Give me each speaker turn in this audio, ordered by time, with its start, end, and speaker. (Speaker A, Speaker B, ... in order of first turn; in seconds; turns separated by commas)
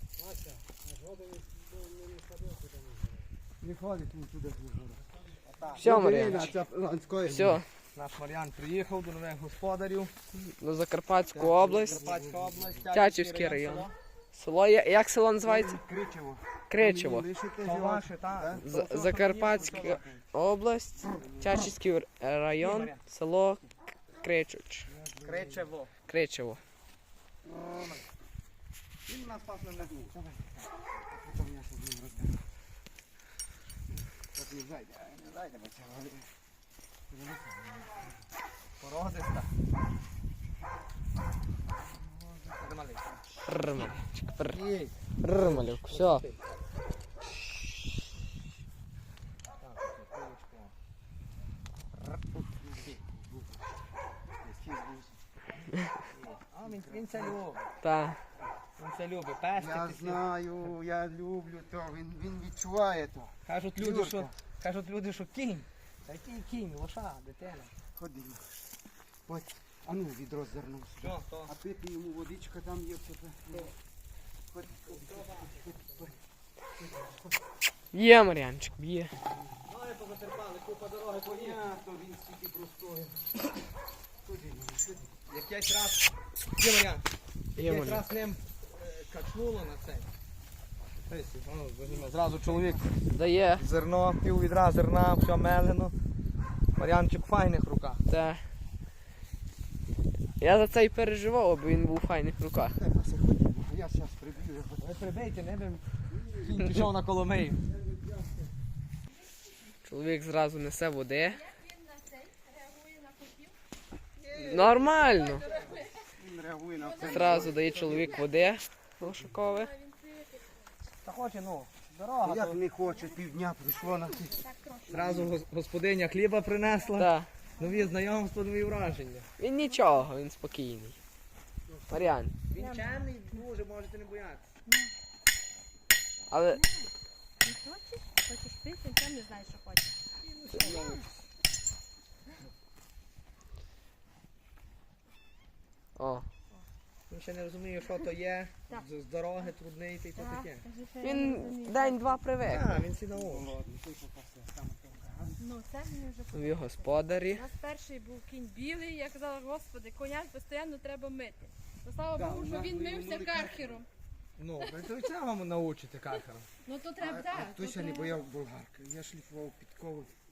Speaker A: 0.2-3.0, Speaker A: 3.6-5.0, Speaker B: 5.4-5.9, Speaker C: 5.8-6.5, Speaker A: 5.8-7.6, Speaker C: 7.2-7.7, Speaker B: 7.9-10.1, Speaker C: 10.3-12.0, Speaker A: 11.3-12.8, Speaker B: 11.8-13.9, Speaker C: 12.9-15.8, Speaker A: 15.4-18.6, Speaker C: 16.7-17.3, Speaker B: 17.6-20.2, Speaker C: 18.6-23.6, Speaker A: 21.1-21.7, Speaker B: 22.6-23.0, Speaker C: 24.2-24.9, Speaker A: 24.9-25.6, Speaker B: 25.2-25.9, Speaker C: 26.1-26.6, Speaker A: 27.5-28.0, Speaker B: 29.1-30.1, Speaker A: 30.1-32.4, Speaker A: 34.3-36.3, Speaker A: 37.1-38.0, Speaker B: 38.8-39.5, Speaker A: 42.2-42.5, Speaker B: 42.6-43.0, Speaker C: 43.5-44.6, Speaker B: 44.5-46.4, Speaker C: 45.2-46.2, Speaker B: 49.6-50.7, Speaker A: 52.3-53.6, Speaker A: 54.4-55.2, Speaker B: 56.1-57.6, Speaker A: 56.6-57.3, Speaker C: 57.8-58.2, Speaker B: 58.8-60.2, Speaker A: 59.5-64.3, Speaker B: 63.5-67.7, Speaker A: 67.9-68.7, Speaker A: 69.3-73.7, Speaker B: 71.0-71.5, Speaker A: 74.5-76.1, Speaker B: 74.9-75.6, Speaker A: 76.9-77.2, Speaker C: 77.9-79.1, Speaker B: 79.6-81.6, Speaker A: 81.3-83.2, Speaker A: 84.2-85.1, Speaker B: 85.3-87.0, Speaker C: 87.5-88.0, Speaker B: 87.6-90.1, Speaker B: 91.1-92.9, Speaker C: 93.1-93.6, Speaker B: 93.6-95.9, Speaker B: 96.8-98.0, Speaker C: 98.1-98.4, Speaker C: 100.4-102.8, Speaker A: 102.8-104.9, Speaker B: 104.8-107.6, Speaker C: 109.8-111.5, Speaker D: 111.5-113.5, Speaker B: 114.2-115.0, Speaker C: 114.4-115.5, Speaker D: 115.1-116.0, Speaker A: 116.2-118.1, Speaker D: 116.8-118.4, Speaker C: 117.0-119.7, Speaker D: 119.5-120.5, Speaker B: 121.0-122.6, Speaker A: 122.2-125.3, Speaker D: 124.1-125.0, Speaker B: 124.9-129.2, Speaker C: 127.0-127.3, Speaker C: 129.4-130.9, Speaker D: 129.7-129.9, Speaker C: 131.9-132.3, Speaker B: 132.5-134.4, Speaker D: 132.5-133.0, Speaker D: 134.7-134.9, Speaker C: 136.3-136.6, Speaker D: 136.5-136.9, Speaker D: 137.4-139.9, Speaker B: 140.2-141.1, Speaker D: 140.6-141.0, Speaker C: 146.0-146.2, Speaker B: 147.1-150.7, Speaker D: 150.2-152.2, Speaker C: 151.0-152.7, Speaker B: 152.4-153.5, Speaker A: 153.1-155.4, Speaker D: 155.4-163.8, Speaker C: 156.3-157.4, Speaker A: 162.1-163.8, Speaker B: 164.4-166.5, Speaker D: 166.6-168.2, Speaker A: 167.0-170.1